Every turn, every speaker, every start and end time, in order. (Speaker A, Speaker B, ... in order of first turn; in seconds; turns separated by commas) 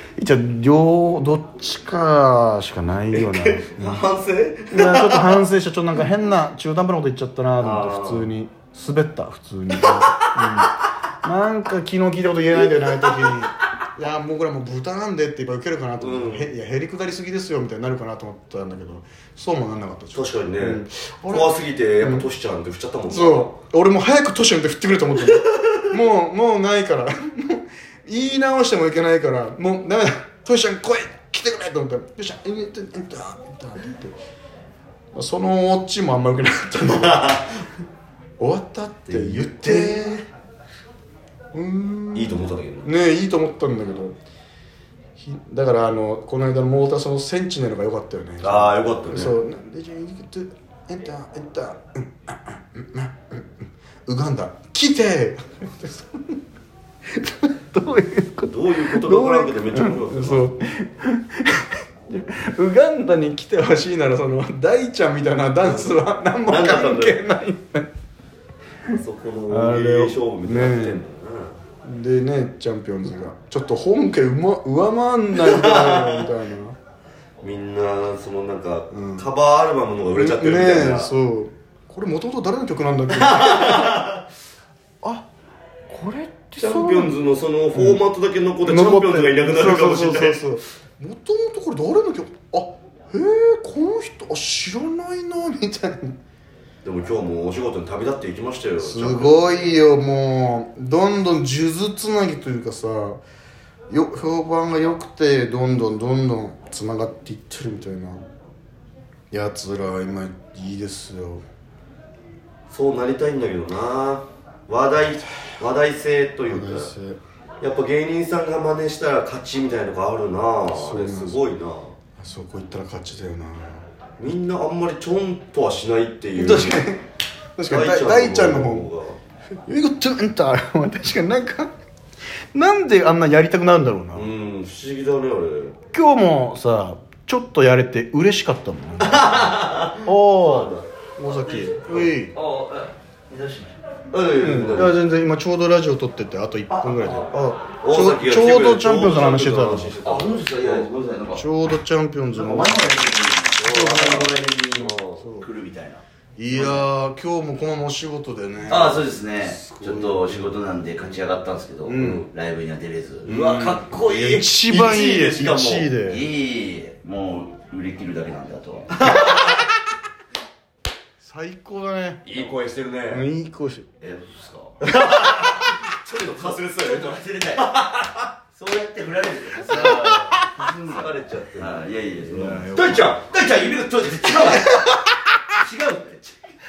Speaker A: 0.2-4.0, Speaker B: 3.1-5.4, Speaker A: 4.7-22.2, Speaker B: 7.6-8.3, Speaker B: 9.8-10.7, Speaker B: 16.0-16.5, Speaker B: 20.1-23.5, Speaker A: 23.1-34.2, Speaker A: 35.1-37.5, Speaker B: 36.9-37.5, Speaker A: 38.4-40.2, Speaker B: 39.1-40.2, Speaker A: 41.5-44.1, Speaker B: 42.1-42.9, Speaker A: 45.2-53.5, Speaker B: 48.4-49.4, Speaker A: 54.0-56.4, Speaker A: 57.1-67.9, Speaker B: 58.5-60.5, Speaker B: 65.6-67.2, Speaker B: 68.9-71.6, Speaker A: 69.5-71.0, Speaker A: 71.8-76.8, Speaker B: 75.3-76.3, Speaker B: 77.4-81.1, Speaker A: 78.9-79.2, Speaker A: 80.1-84.1, Speaker B: 83.1-84.2, Speaker A: 85.0-85.3, Speaker A: 85.9-87.1, Speaker B: 86.6-90.4, Speaker A: 87.7-88.0, Speaker A: 88.6-96.2, Speaker B: 96.8-99.7, Speaker A: 98.8-103.2, Speaker A: 103.9-108.2, Speaker A: 109.3-111.4, Speaker B: 112.7-116.9, Speaker A: 116.5-117.2, Speaker B: 117.6-121.9, Speaker A: 120.7-121.4, Speaker A: 122.2-123.8, Speaker B: 124.2-126.8, Speaker A: 126.4-127.0, Speaker A: 127.6-128.9, Speaker B: 127.7-129.2, Speaker A: 129.7-131.7, Speaker A: 132.5-134.3, Speaker B: 134.1-135.8, Speaker A: 135.9-142.3, Speaker B: 139.1-140.9, Speaker C: 141.2-143.7, Speaker B: 144.1-144.9, Speaker A: 144.4-150.0, Speaker C: 146.7-147.3, Speaker B: 147.8-150.9, Speaker C: 150.0-151.7, Speaker A: 151.3-153.1, Speaker C: 152.3-156.0, Speaker B: 153.6-155.2, Speaker A: 155.2-155.5, Speaker A: 156.4-160.5, Speaker C: 156.5-156.8, Speaker C: 158.7-164.5, Speaker A: 161.8-162.2, Speaker B: 162.0-162.2, Speaker A: 163.2-166.2, Speaker B: 163.3-165.9, Speaker C: 165.7-169.5, Speaker B: 169.0-169.4, Speaker A: 171.2-172.5, Speaker B: 172.2-173.2, Speaker A: 173.1-173.9, Speaker C: 174.0-174.8, Speaker B: 174.8-178.3, Speaker C: 176.3-177.8, Speaker C: 178.5-184.8, Speaker A: 179.7-180.3, Speaker B: 179.7-183.3, Speaker A: 182.2-183.1, Speaker A: 184.6-185.0, Speaker C: 185.6-186.4